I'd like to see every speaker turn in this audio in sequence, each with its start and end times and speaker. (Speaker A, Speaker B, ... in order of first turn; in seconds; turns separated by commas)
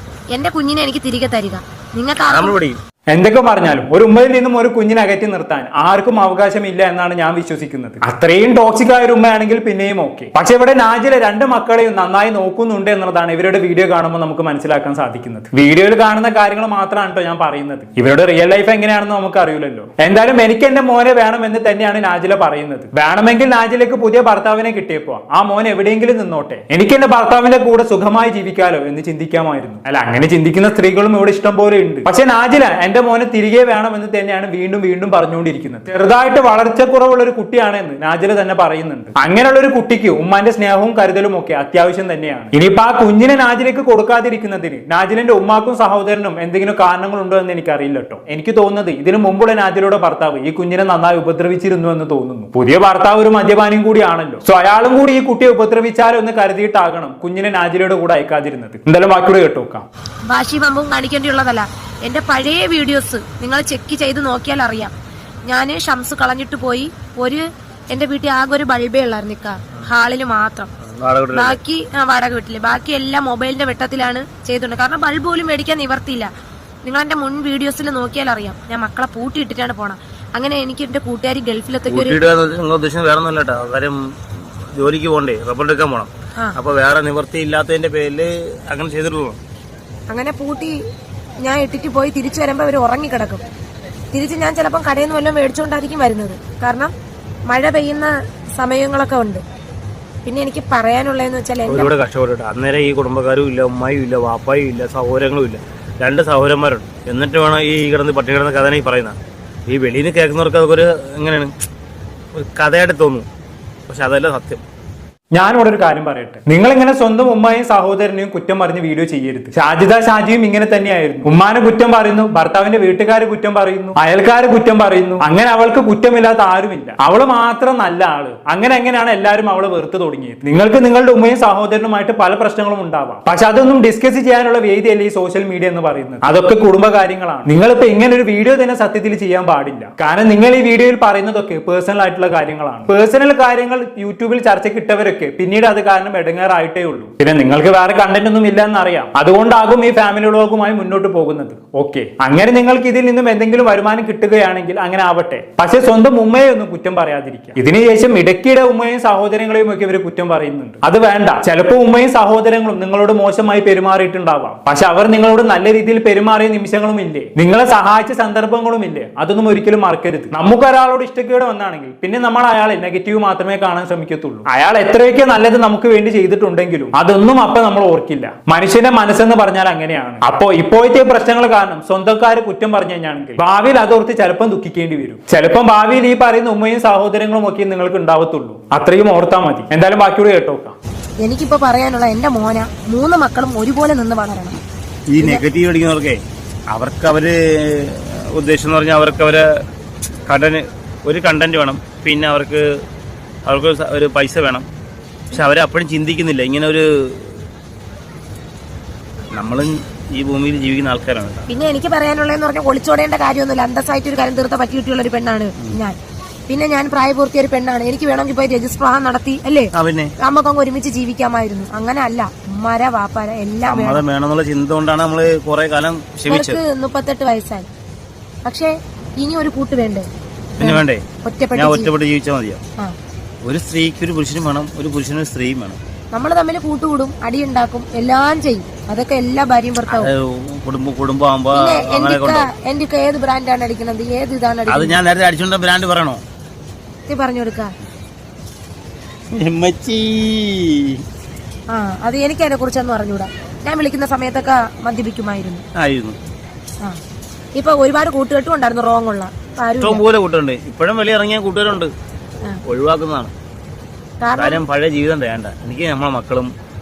Speaker A: 0.3-2.5, Speaker B: 2.2-2.8, Speaker C: 3.1-59.8, Speaker A: 60.3-64.9, Speaker A: 65.5-70.7, Speaker B: 70.8-71.6, Speaker A: 71.3-76.3, Speaker A: 76.8-82.2, Speaker B: 81.9-89.4, Speaker A: 90.1-90.8, Speaker A: 91.4-93.4, Speaker A: 94.1-96.9, Speaker A: 97.5-99.4, Speaker A: 100.2-101.9, Speaker B: 101.7-111.5, Speaker B: 112.3-113.2, Speaker B: 113.9-114.6, Speaker C: 115.3-190.8, Speaker A: 191.2-194.6, Speaker B: 195.1-199.6, Speaker B: 200.3-202.8, Speaker B: 203.4-204.7, Speaker B: 205.3-207.4, Speaker B: 209.3-211.5, Speaker A: 211.5-215.9, Speaker A: 216.5-224.0, Speaker B: 219.7-220.1, Speaker B: 223.7-226.6, Speaker A: 226.3-227.7, Speaker A: 228.4-231.9, Speaker B: 230.6-232.6, Speaker B: 233.4-235.8, Speaker A: 236.1-240.1, Speaker B: 239.9-242.5, Speaker A: 241.5-245.0, Speaker B: 244.7-246.2, Speaker A: 247.1-247.7, Speaker B: 249.3-251.0, Speaker A: 251.7-255.6, Speaker B: 255.8-256.2, Speaker A: 257.6-260.0, Speaker B: 259.8-261.9, Speaker B: 262.6-263.3, Speaker A: 264.2-264.6, Speaker B: 264.3-266.5